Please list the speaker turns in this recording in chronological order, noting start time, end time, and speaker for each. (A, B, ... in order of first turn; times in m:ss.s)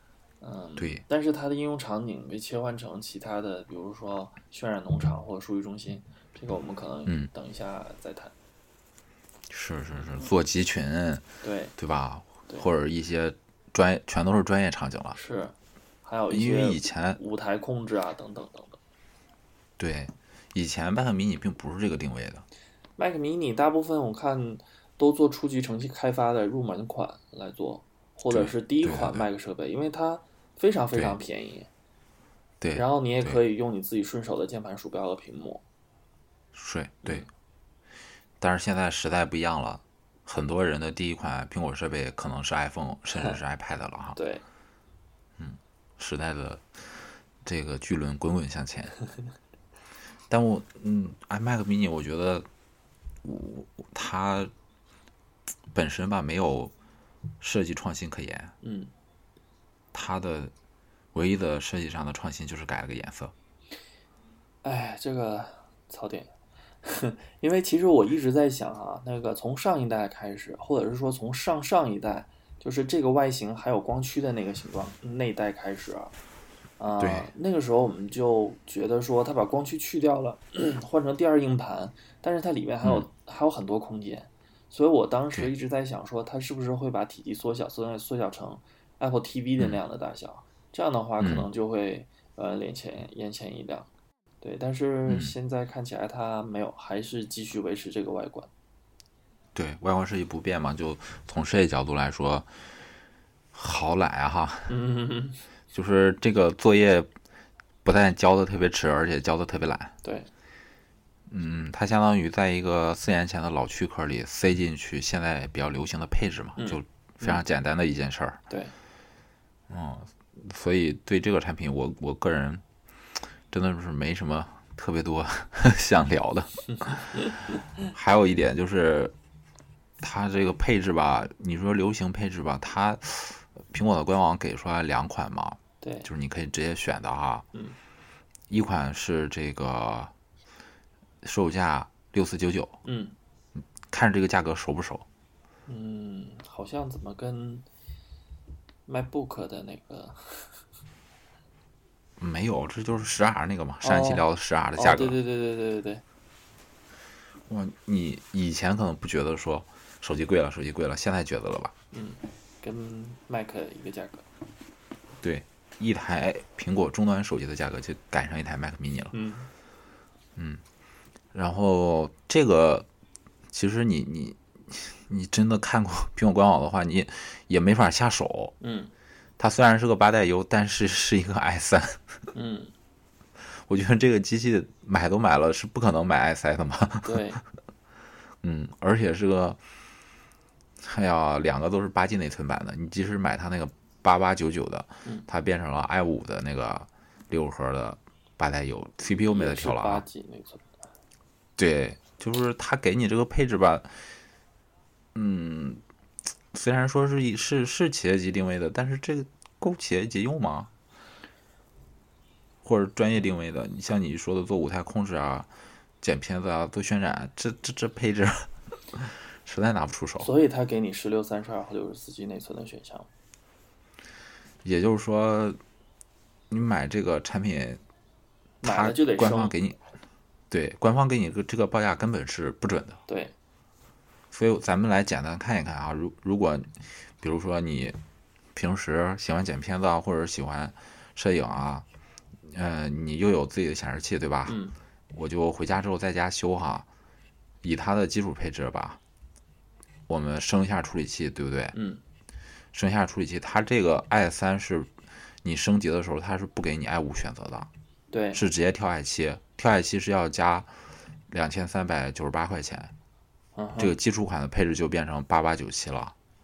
0:00.4-0:08.3 A
0:00.8-0:01.0 B
0:09.5-0:11.2 B
0:11.4-0:11.7 A
0:11.8-0:15.2 B
0:15.1-0:18.8 A
0:16.3-0:17.2 B
0:19.8-0:22.4 B
0:23.0-0:31.7 A
0:28.3-0:29.2 B
0:32.6-0:33.4 B
0:32.7-0:35.6 A
0:36.5-0:37.3 B
0:38.4-0:44.2 B
0:44.2-0:44.4 A
0:45.4-0:49.0 B
0:50.3-0:52.5 B
0:53.2-0:54.5 B
0:55.7-0:56.7 B
0:57.4-0:58.5 B
0:58.6-0:58.9 A
0:59.9-1:00.5 B
1:01.1-1:03.3 B
1:04.6-1:06.3 A
1:06.8-1:16.1 A
1:16.8-1:33.9 A
1:17.0-1:17.3 B
1:31.2-1:31.5 B
1:34.4-1:38.5 A
1:35.1-1:35.3 B
1:39.5-1:42.5 B
1:43.5-1:44.7 B
1:44.7-1:45.4 A
1:45.7-1:47.1 B
1:47.8-1:49.9 B
1:50.0-1:50.3 A
1:51.3-1:58.4 B
1:56.6-1:57.4 A
1:59.7-2:02.6 B
2:03.5-2:07.1 B
2:06.7-2:07.3 A
2:07.9-2:09.1 B
2:10.0-2:17.4 B
2:15.8-2:16.1 A
2:18.5-2:20.1 B
2:21.2-2:22.8 B
2:22.8-2:23.1 A
2:23.6-2:25.0 B
2:25.7-2:27.6 A
2:28.8-2:30.5 A
2:32.2-2:35.2 B
2:33.8-2:34.2 A
2:34.8-2:36.0 A
2:37.5-2:41.7 B
2:41.9-2:44.2 A
2:45.2-2:49.1 B
2:49.1-2:49.5 A
2:50.4-2:50.6 B
2:51.3-2:52.9 B
2:53.5-2:58.5 B
2:58.6-2:58.9 A
2:59.4-3:02.0 B
3:02.3-3:02.7 A
3:03.5-3:07.2 B
3:07.0-3:07.4 A
3:08.4-3:09.6 B
3:10.8-3:20.0 B
3:19.3-3:20.6 A
3:21.6-3:24.0 B
3:25.1-3:25.8 B
3:26.5-3:30.7 B
3:32.6-3:35.5 B
3:36.0-3:40.3 B
3:40.2-3:43.1 A
3:44.6-3:45.6 B
3:46.5-3:47.8 B
3:48.6-3:49.5 A
3:48.6-3:49.8 B
3:50.5-3:53.0 B
3:53.1-3:53.3 A
3:54.3-3:58.0 B
3:58.5-4:01.8 B
4:02.4-4:04.6 B
4:04.4-4:04.7 A
4:05.1-4:06.8 B
4:07.6-4:09.0 B
4:10.1-4:11.8 B
4:11.7-4:12.0 A
4:12.7-4:17.7 B
4:18.1-4:18.4 A
4:18.3-4:20.7 B
4:21.3-4:22.9 B
4:23.6-4:23.9 A
4:23.8-4:26.1 B